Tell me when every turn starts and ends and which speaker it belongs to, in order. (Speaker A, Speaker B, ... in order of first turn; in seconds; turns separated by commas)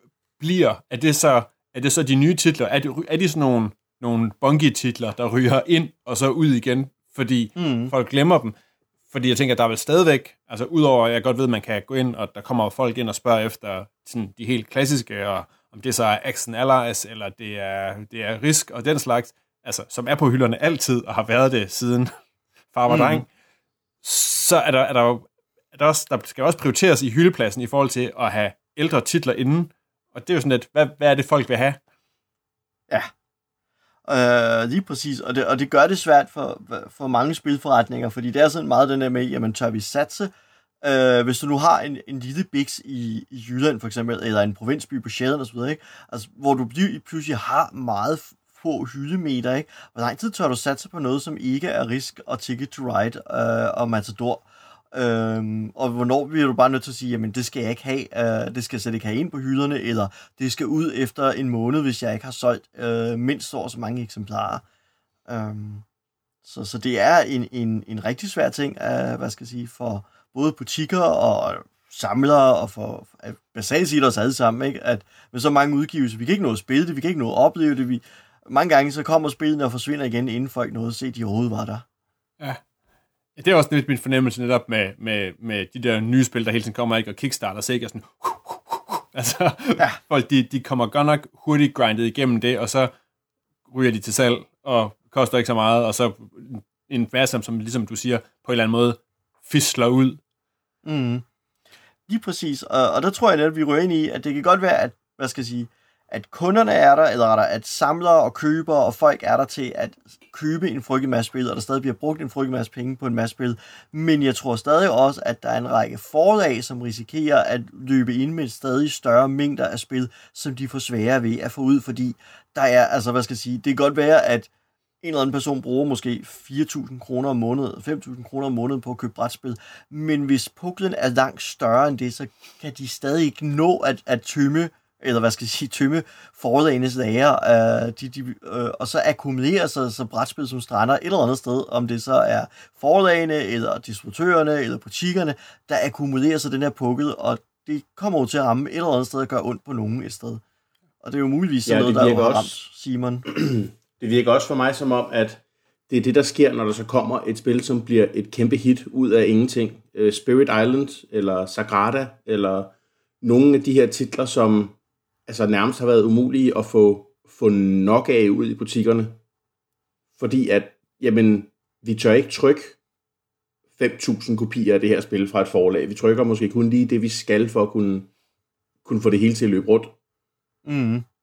Speaker A: 0.4-8.5, Speaker B: 7.5-7.9, Speaker A: 9.1-22.1, Speaker A: 22.7-23.3, Speaker B: 22.9-23.2, Speaker A: 24.0-31.8, Speaker B: 34.1-64.6, Speaker B: 65.3-65.8, Speaker B: 66.4-81.8, Speaker A: 83.3-92.9, Speaker A: 93.7-100.2, Speaker B: 100.8-101.2, Speaker B: 102.1-124.5, Speaker B: 125.0-150.4, Speaker B: 151.0-153.2, Speaker C: 151.7-152.5, Speaker C: 153.3-164.8, Speaker C: 165.3-169.2, Speaker C: 170.2-172.8, Speaker C: 173.8-178.1, Speaker C: 178.8-179.9, Speaker B: 180.7-181.0